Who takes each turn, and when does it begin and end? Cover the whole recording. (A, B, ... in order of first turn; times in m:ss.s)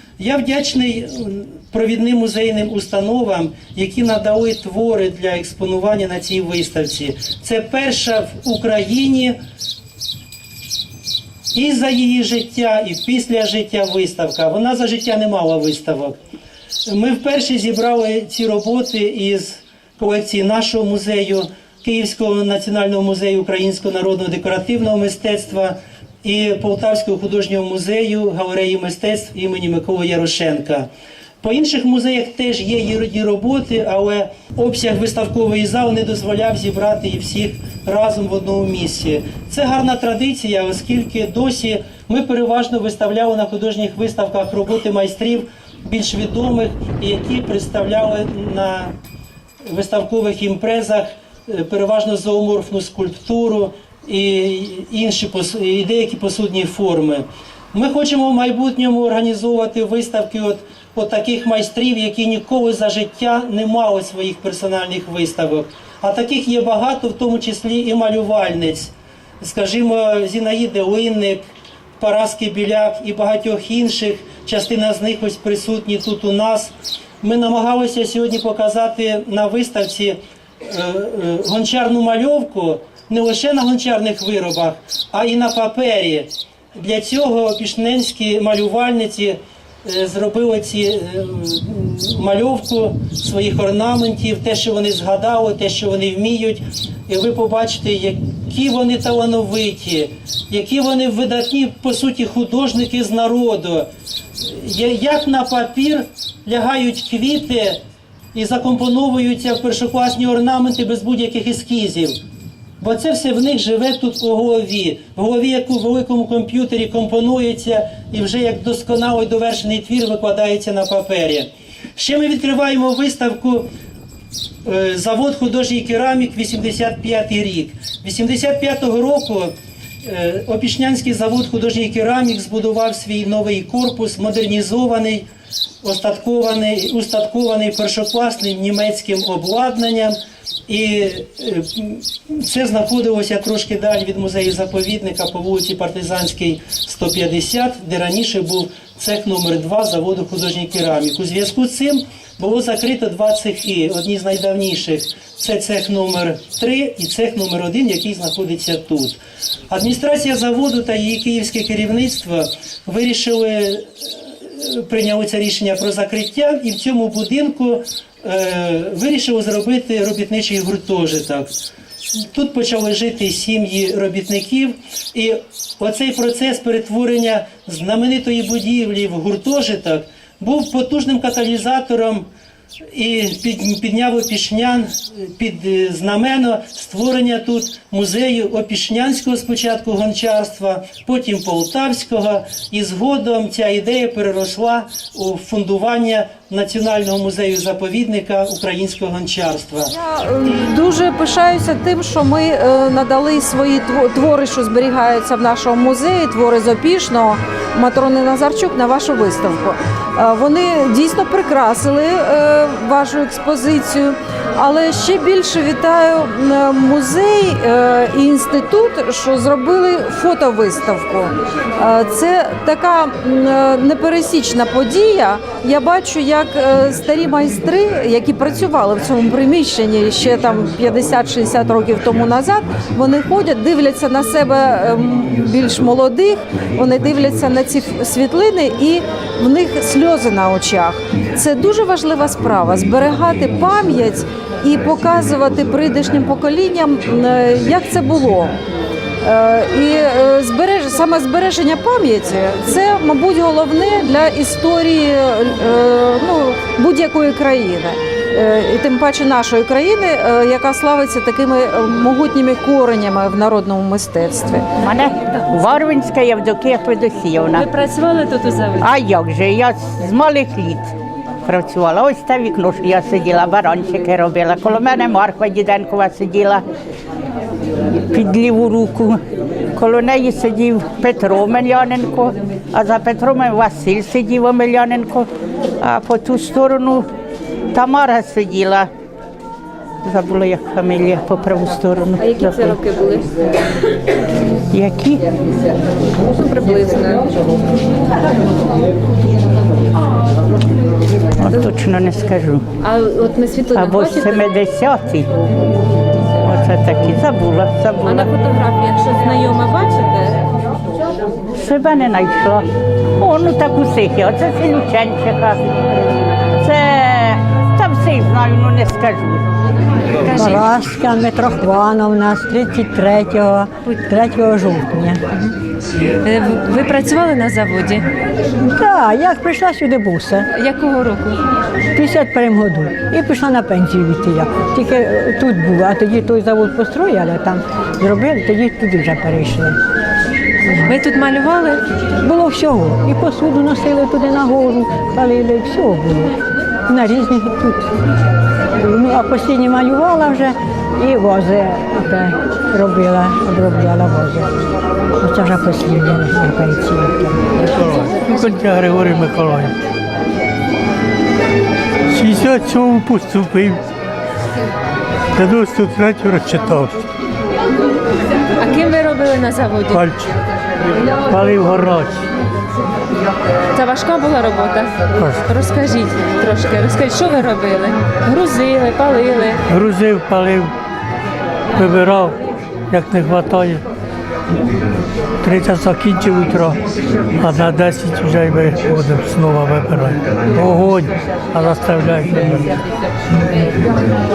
0:00.2-0:09.4 A
0:11.5-0:16.2 A
0:16.9-0:30.9 A
0:31.4-0:48.9 A
0:49.6-1:11.5 A
1:12.0-1:43.9 A
1:44.4-1:47.8 A
1:48.3-1:52.2 A
1:52.8-2:03.7 A
2:04.6-2:09.5 A
2:10.0-2:15.2 A
2:15.8-2:51.6 A
2:52.2-3:02.3 A
3:02.9-3:19.9 A
3:19.9-4:08.6 B
4:09.2-4:24.7 B
4:24.8-4:27.7 C
4:27.6-4:28.9 D
4:28.8-4:30.9 C
4:31.4-4:36.7 C
4:38.1-4:39.2 C
4:39.7-4:45.3 C
4:45.8-4:47.1 C
4:47.7-4:48.9 C
4:50.0-4:52.8 C
4:52.2-4:53.3 D
4:54.7-4:55.3 C
4:56.3-4:57.2 D
5:01.4-5:02.7 C
5:02.8-5:04.5 D
5:03.7-5:05.4 C
5:06.4-5:08.3 C
5:08.1-5:10.4 D
5:11.6-5:15.6 C
5:16.6-5:19.4 C
5:20.3-5:20.7 D
5:20.3-5:25.2 E
5:26.2-5:28.1 D
5:28.6-5:30.5 E
5:30.6-5:31.4 D
5:32.0-5:39.8 E
5:40.9-5:41.8 D
5:42.2-5:46.3 E
5:46.9-5:47.9 E
5:48.8-5:54.6 E
5:55.2-5:57.4 E
5:57.7-5:59.7 F
6:02.1-6:03.8 F
6:05.4-6:07.0 F
6:08.6-6:10.1 D
6:09.9-6:10.3 F
6:11.3-6:12.2 F
6:13.7-6:19.6 D
6:15.2-6:15.5 F
6:19.7-6:20.7 F
6:21.8-6:22.4 F
6:22.9-6:23.8 F
6:25.4-6:26.8 F
6:27.4-6:32.7 F